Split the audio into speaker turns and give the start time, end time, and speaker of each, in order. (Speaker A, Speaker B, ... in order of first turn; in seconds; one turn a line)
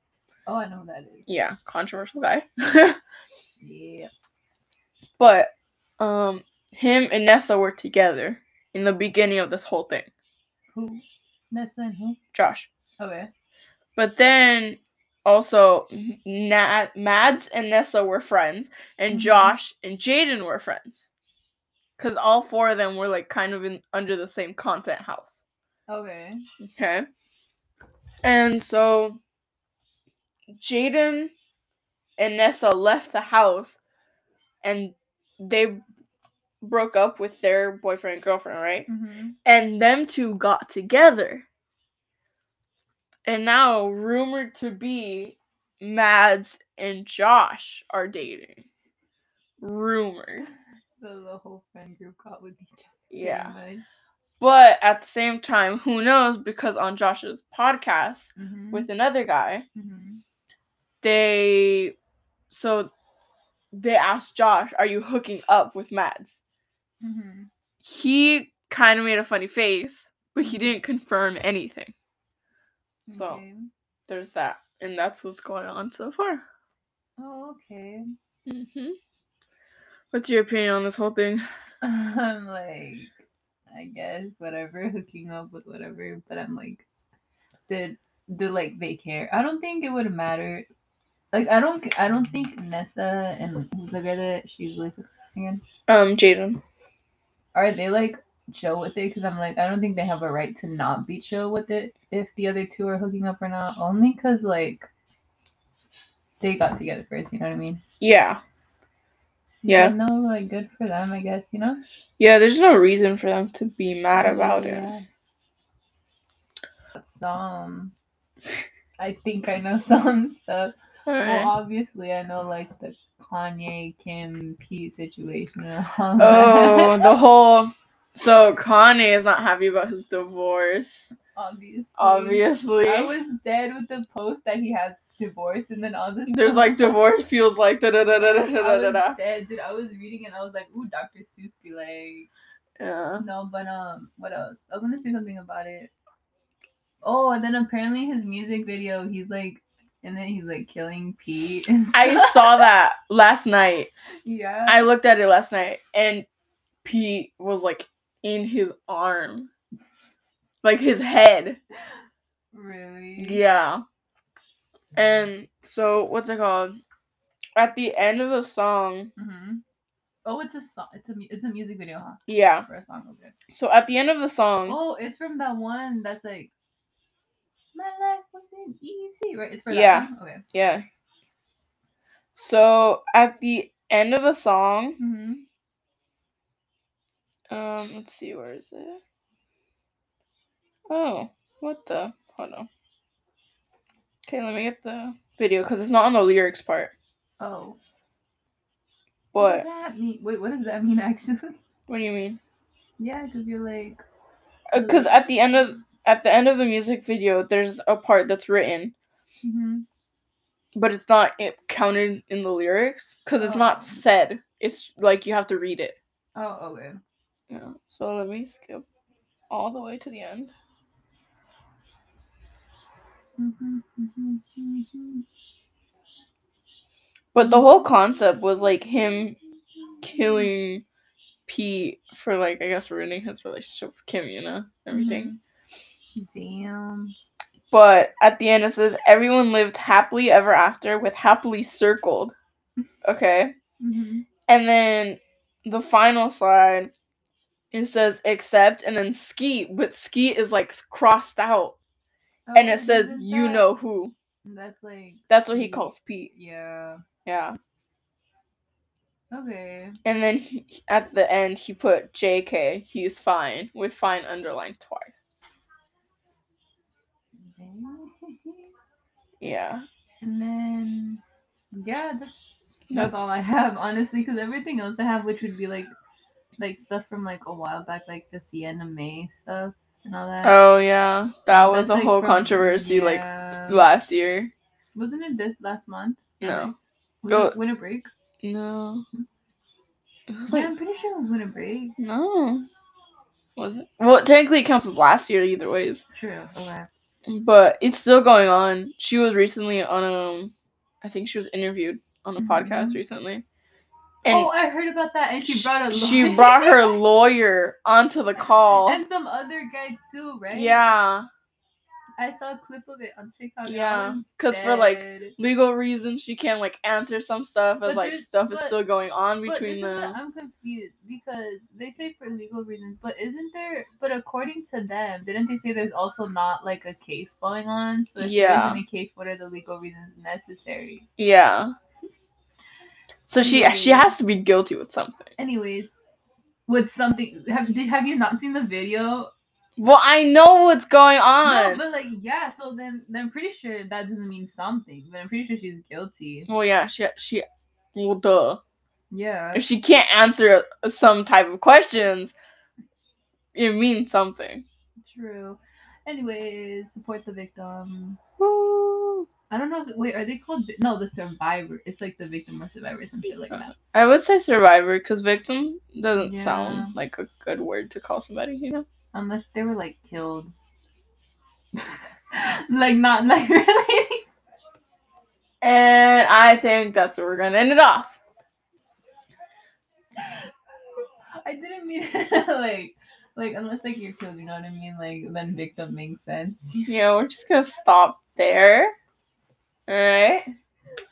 Speaker A: 0.5-1.3
Speaker B: 1.3-3.0
Speaker A: 3.6-4.1
Speaker B: 5.2-10.1
Speaker A: 10.7-12.2
Speaker B: 12.3-12.7
Speaker A: 13.0-13.3
Speaker B: 14.0-21.1
Speaker A: 19.1-19.5
Speaker B: 22.0-25.4
Speaker A: 25.9-26.4
Speaker B: 26.6-27.1
Speaker B: 28.2-29.2
Speaker B: 30.6-31.3
Speaker B: 32.2-33.8
Speaker B: 34.6-35.8
Speaker B: 36.6-38.9
Speaker A: 38.9-39.4
Speaker B: 39.4-41.4
Speaker B: 43.3-48.6
Speaker B: 49.6-50.5
Speaker A: 51.0-53.9
Speaker B: 53.1-53.5
Speaker B: 54.4-59.6
Speaker A: 58.4-58.9
Speaker A: 59.7-60.2
Speaker B: 61.0-62.0
Speaker B: 62.5-62.9
Speaker B: 63.7-66.4
Speaker A: 67.0-67.5
Speaker B: 67.8-71.9
Speaker A: 70.4-70.7
Speaker A: 73.1-73.7
Speaker B: 73.1-73.4
Speaker B: 74.1-76.4
Speaker A: 77.2-78.0
Speaker B: 78.5-79.0
Speaker B: 80.1-81.4
Speaker A: 81.8-83.1
Speaker A: 83.7-86.8
Speaker A: 87.7-90.7
Speaker A: 91.3-95.6
Speaker B: 95.9-96.6
Speaker A: 97.5-104.9
Speaker A: 106.4-107.8
Speaker B: 108.0-108.4
Speaker A: 109.6-111.8
Speaker B: 109.7-109.9
Speaker B: 112.2-114.9
Speaker A: 114.2-115.0
Speaker A: 117.0-117.9
Speaker A: 119.0-127.1
Speaker B: 121.1-121.5
Speaker B: 126.2-131.1
Speaker A: 131.3-136.9
Speaker B: 132.0-133.1
Speaker B: 136.3-139.2
Speaker A: 138.4-142.3
Speaker B: 142.8-143.2
Speaker A: 143.2-145.9
Speaker A: 147.0-152.6
Speaker B: 151.9-153.9
Speaker A: 154.2-154.9
Speaker B: 154.7-156.2
Speaker B: 156.8-159.5
Speaker B: 160.6-161.6
Speaker A: 162.5-163.4
Speaker B: 163.2-163.8
Speaker B: 164.9-166.8
Speaker B: 167.6-169.1
Speaker A: 169.2-169.6
Speaker A: 170.2-173.3
Speaker B: 172.3-172.6
Speaker B: 173.5-174.8
Speaker A: 174.7-176.5
Speaker A: 177.7-180.4
Speaker B: 179.7-180.8
Speaker B: 182.3-185.0
Speaker A: 185.0-185.4
Speaker B: 187.5-189.0
Speaker B: 190.9-192.7
Speaker B: 194.3-196.9
Speaker A: 197.4-197.8
Speaker B: 199.3-199.6
Speaker A: 199.3-201.6
Speaker B: 201.9-202.4
Speaker A: 203.0-204.0
Speaker B: 204.7-208.9
Speaker A: 204.7-205.2
Speaker A: 209.4-209.8
Speaker B: 210.7-216.0
Speaker A: 213.4-214.0
Speaker A: 216.3-217.0
Speaker B: 217.5-218.8
Speaker B: 219.5-220.5
Speaker A: 223.4-225.2
Speaker B: 227.3-229.4
Speaker B: 230.0-230.8
Speaker B: 231.5-235.3
Speaker A: 234.9-235.4
Speaker A: 236.2-237.1
Speaker B: 237.7-242.3
Speaker B: 243.0-243.5
Speaker A: 243.8-244.2
Speaker B: 244.5-246.9
Speaker B: 247.7-251.7
Speaker A: 252.5-253.7
Speaker B: 252.5-254.1
Speaker A: 254.4-257.0
Speaker B: 255.3-256.3
Speaker B: 257.2-257.6
Speaker A: 259.3-260.0
Speaker B: 260.0-265.1
Speaker A: 267.4-268.7
Speaker B: 269.4-269.8
Speaker A: 270.2-271.2
Speaker A: 271.7-275.9
Speaker B: 272.9-273.2
Speaker A: 276.6-280.6
Speaker B: 280.4-284.5
Speaker A: 281.5-283.8
Speaker A: 284.9-286.7
Speaker B: 286.4-286.7
Speaker A: 287.2-288.1
Speaker B: 287.3-287.6
Speaker B: 288.4-289.0
Speaker B: 290.3-290.7
Speaker A: 290.5-292.0
Speaker B: 292.0-292.7
Speaker B: 293.6-296.0
Speaker A: 296.1-296.9
Speaker B: 297.3-303.4
Speaker A: 302.4-303.0
Speaker B: 304.2-304.5
Speaker A: 304.2-307.0
Speaker B: 305.4-309.0
Speaker A: 308.9-310.8
Speaker B: 310.5-311.3
Speaker A: 312.2-315.3
Speaker B: 313.6-320.2
Speaker A: 317.8-318.8
Speaker A: 319.4-331.1
Speaker B: 328.2-328.8
Speaker B: 331.2-331.7
Speaker B: 333.3-335.3
Speaker A: 333.4-334.1
Speaker A: 335.4-335.9
Speaker A: 336.7-339.3
Speaker B: 339.8-341.8
Speaker A: 341.4-346.5
Speaker B: 346.5-348.6
Speaker A: 349.1-349.6
Speaker B: 349.5-352.3
Speaker B: 353.5-354.6
Speaker A: 355.0-358.3
Speaker B: 358.4-359.3
Speaker A: 359.5-363.7
Speaker B: 363.7-368.8
Speaker A: 366.2-366.9
Speaker A: 369.1-370.5
Speaker A: 371.7-374.2
Speaker B: 375.6-378.2
Speaker A: 380.2-386.9
Speaker B: 386.9-388.9
Speaker B: 389.9-390.5